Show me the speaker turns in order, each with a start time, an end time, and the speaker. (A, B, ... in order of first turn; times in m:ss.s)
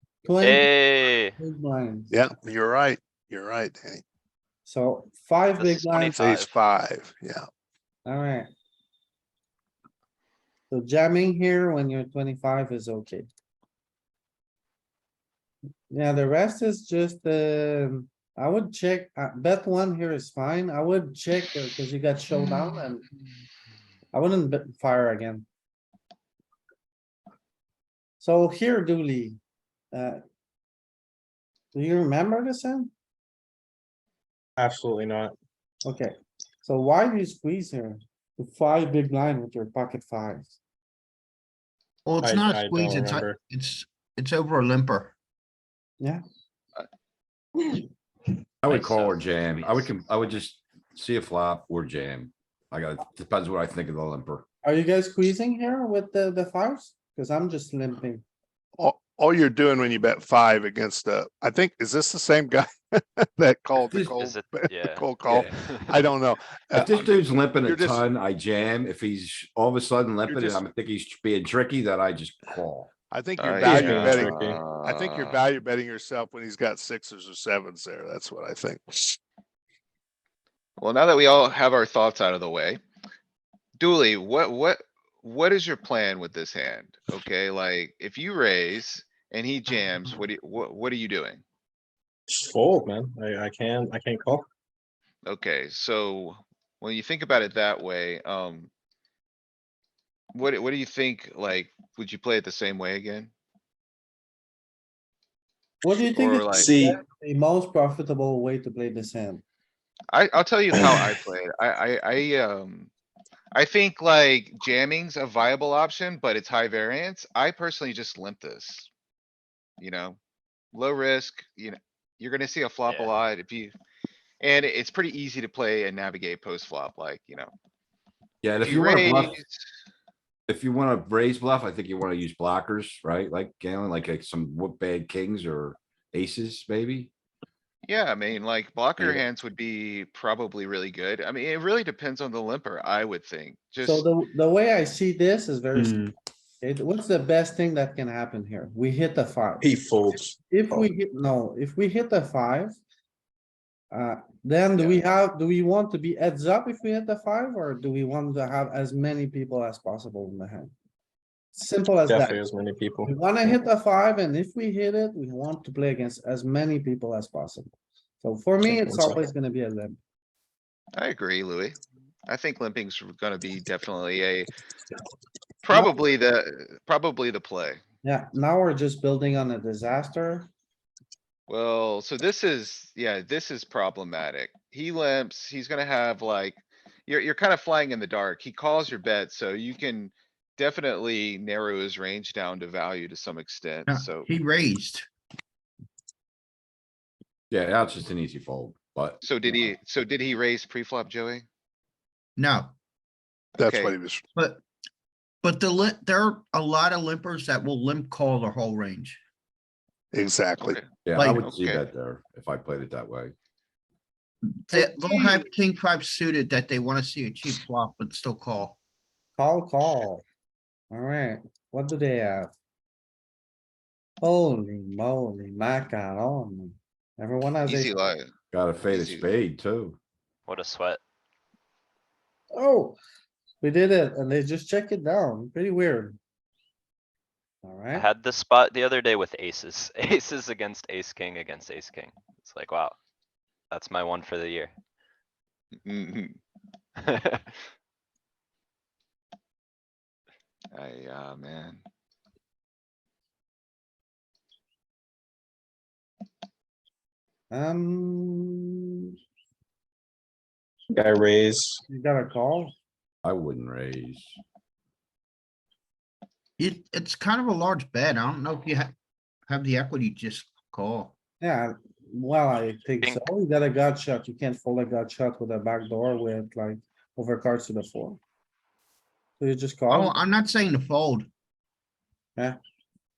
0:00.2-0:00.7 A
0:00.4-0:01.3 B
0:01.4-0:02.1 A
0:02.1-0:04.0 C
0:04.6-0:06.2 A
0:05.6-0:06.6 B
0:06.1-0:07.5 C
0:08.1-0:08.5 A
0:10.7-0:13.3 A
0:15.9-0:23.0 A
0:24.1-0:25.4 A
0:28.2-0:29.4 A
0:29.9-0:30.2 A
0:31.7-0:32.9 A
0:34.6-0:35.4 D
0:35.8-0:40.5 A
0:42.0-0:45.1 E
0:42.2-0:43.4 D
0:48.6-0:54.4 F
0:48.7-0:50.4 B
0:54.6-0:58.2 A
0:58.8-1:08.0 C
1:04.1-1:06.0 B
1:06.8-1:12.9 F
1:10.3-1:10.6 C
1:13.1-1:19.2 C
1:13.4-1:15.4 G
1:13.7-1:14.6 D
1:20.8-1:22.8 G
1:23.8-1:31.4 G
1:32.3-1:34.5 D
1:35.2-1:38.7 G
1:40.3-1:43.3 G
1:45.8-1:49.4 A
1:46.1-1:46.8 G
1:46.5-1:47.0 D
1:50.1-1:52.9 G
1:53.5-1:58.9 G
1:59.8-2:00.2 G
2:00.7-2:03.7 G
2:02.9-2:03.2 B
2:04.4-2:07.5 G
2:08.4-2:09.4 F
2:08.6-2:09.6 G
2:10.5-2:17.1 F
2:17.9-2:24.0 G
2:23.8-2:26.0 A
2:25.8-2:26.1 D
2:26.6-2:29.7 A
2:29.6-2:30.9 D
2:30.5-2:32.8 A
2:33.9-2:40.7 A
2:41.5-2:42.5 A
2:42.1-2:43.1 D
2:43.0-2:50.0 A
2:48.6-2:49.2 D
2:51.0-2:54.5 G
2:55.6-2:57.8 G
2:58.0-3:00.5 A
3:01.5-3:14.3 G
3:13.9-3:15.1 E
3:17.5-3:19.2 F
3:19.2-3:21.4 G
3:22.4-3:22.8 E
3:23.6-3:24.2 C
3:23.6-3:24.0 G
3:24.4-3:24.6 E
3:25.4-3:29.2 E
3:30.1-3:30.8 C
3:30.6-3:31.8 G
3:31.0-3:33.3 F
3:31.2-3:31.5 E
3:34.7-3:38.8 E
3:34.7-3:35.4 A
3:39.4-3:40.2 A
3:40.9-3:42.5 A
3:44.2-3:48.2 A
3:47.6-3:48.3 G
3:48.5-3:50.0 F
3:48.8-3:49.3 G
3:50.5-3:51.0 B
3:52.5-3:53.0 A
3:53.6-3:56.2 A
3:57.6-3:58.1 A
3:57.9-4:03.0 B
4:03.7-4:04.7 B
4:05.8-4:06.4 G
4:07.0-4:07.6 B
4:10.7-4:11.8 G
4:17.5-4:18.8 A
4:20.9-4:21.8 D
4:21.9-4:22.7 A
4:23.2-4:24.4 F
4:26.6-4:28.9 E
4:29.5-4:31.2 E
4:31.4-4:38.2 A
4:39.4-4:40.2 A
4:39.9-4:41.3 E